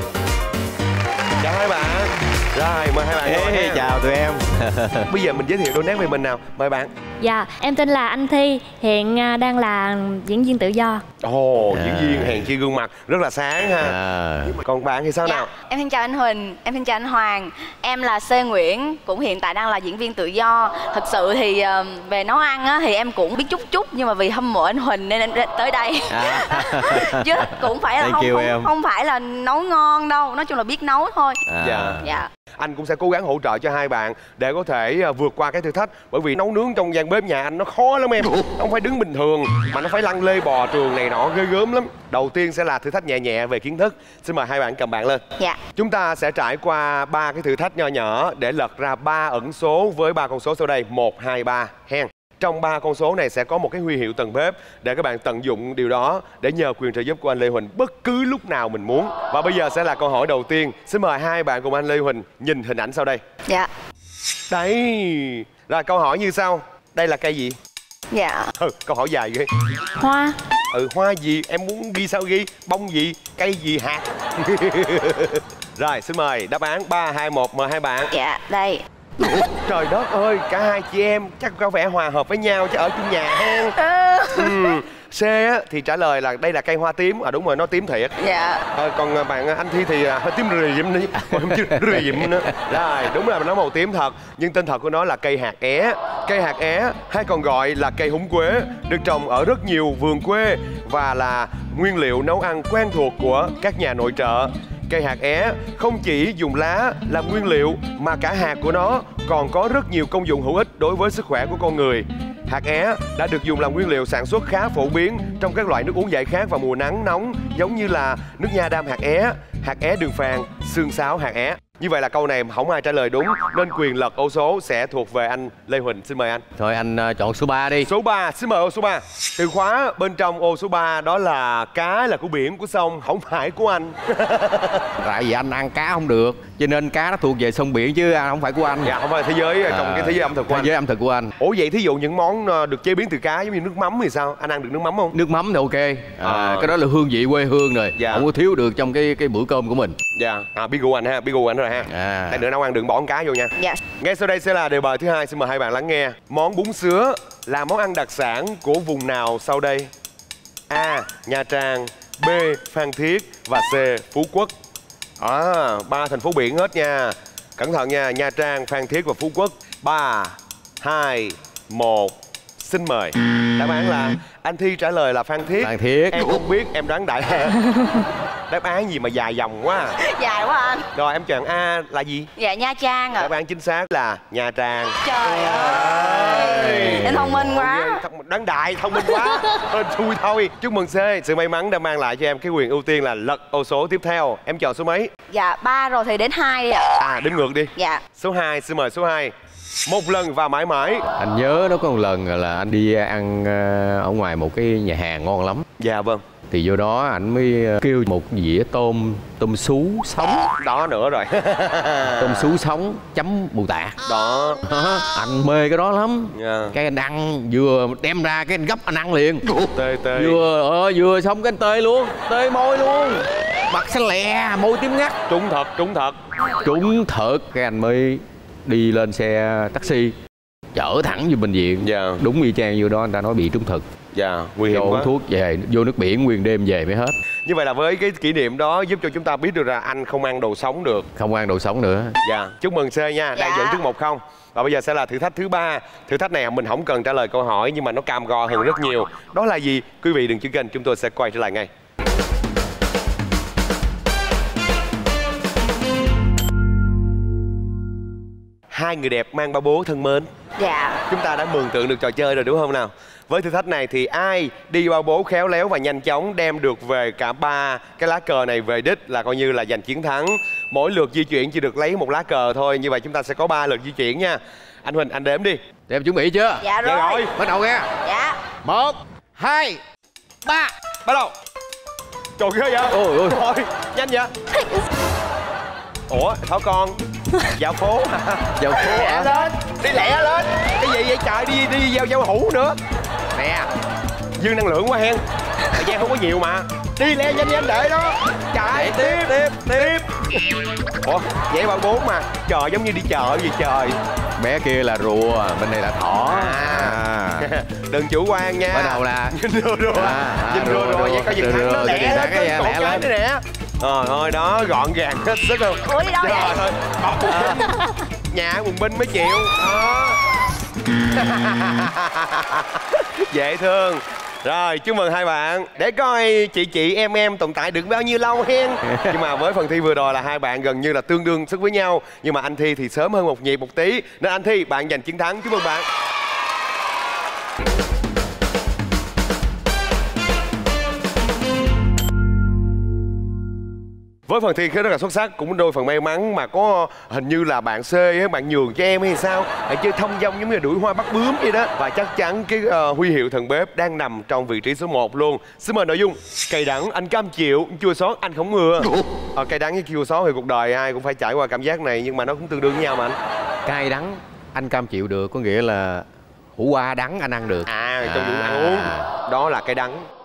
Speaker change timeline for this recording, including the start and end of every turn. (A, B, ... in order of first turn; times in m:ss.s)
0:01.4-0:03.9 A
0:03.2-0:05.1 B
0:05.1-0:06.9 A
0:07.2-0:11.0 C
0:11.2-0:14.0 A
0:11.7-0:12.5 B
0:13.8-0:14.6 B
0:14.5-0:15.5 A
0:15.2-0:31.4 D
0:26.1-0:28.7 B
0:31.5-0:32.1 B
0:31.6-0:32.0 A
0:32.0-0:32.3 D
0:32.6-0:45.2 A
0:45.8-1:03.2 A
1:04.5-1:07.6 A
1:08.1-1:08.5 D
1:08.6-1:09.5 A
1:09.9-1:10.4 C
1:10.7-1:18.1 A
1:18.1-1:19.5 D
1:19.6-1:23.8 A
1:23.7-1:24.7 D
1:24.3-1:28.1 A
1:28.2-1:28.6 D
1:28.7-2:06.4 A
1:31.3-1:32.3 B
2:06.6-2:07.9 B
2:07.8-2:14.9 A
2:15.0-2:18.9 B
2:18.8-2:20.7 A
2:19.7-2:21.3 B
2:21.4-2:25.2 A
2:25.1-2:30.0 B
2:26.2-2:26.7 A
2:28.0-2:28.3 A
2:30.1-2:39.9 A
2:31.8-2:32.4 B
2:40.7-2:44.5 A
2:45.2-2:57.6 A
2:55.6-2:56.2 B
2:58.5-3:00.0 A
3:00.0-3:00.9 D
3:00.9-3:02.3 A
3:02.4-3:03.3 D
3:03.2-3:05.0 A
3:05.0-3:08.0 D
3:05.2-3:07.3 B
3:05.7-3:15.1 A
3:09.1-3:09.5 D
3:15.3-3:17.0 D
3:17.0-3:19.3 A
3:17.8-3:18.0 D
3:19.9-3:21.0 A
3:21.2-3:25.6 B
3:25.8-3:26.2 A
3:26.5-3:30.5 B
3:30.6-3:32.5 A
3:32.0-3:34.0 B
3:34.0-3:34.6 A
3:34.6-3:45.2 B
3:36.3-3:36.8 A
3:39.7-3:40.4 A
3:45.3-3:46.2 A
3:46.6-3:50.1 B
3:50.7-3:53.9 B
3:51.8-3:52.2 A
3:54.1-3:55.1 A
3:54.7-3:57.2 B
3:57.4-4:01.1 A
4:01.1-4:02.2 B
4:02.2-4:11.7 A
4:03.3-4:03.8 D
4:18.7-4:20.3 A
4:20.6-4:21.0 D
4:21.1-4:35.6 A
4:35.9-4:36.6 B
4:36.6-4:37.3 D
4:36.8-4:37.3 A
4:37.3-4:37.9 B
4:38.0-4:38.4 D
4:38.6-4:39.8 B
4:40.4-4:40.7 B
4:41.0-4:41.3 A
4:42.4-4:44.4 A
4:42.9-4:43.4 B
4:46.1-4:47.0 A
4:47.5-4:52.8 A
4:48.6-4:49.3 B
4:53.4-4:53.7 B
4:54.4-5:00.4 A
4:58.7-5:00.0 B
5:01.0-5:04.0 A
5:04.4-5:07.5 B
5:06.3-5:17.8 A
5:08.7-5:09.4 B
5:09.9-5:13.0 B
5:15.8-5:16.6 D
5:18.3-5:20.2 A
5:21.1-5:35.9 A
5:28.8-5:29.2 B
5:44.3-6:03.2 A
6:03.6-6:09.1 B
6:07.6-6:10.0 A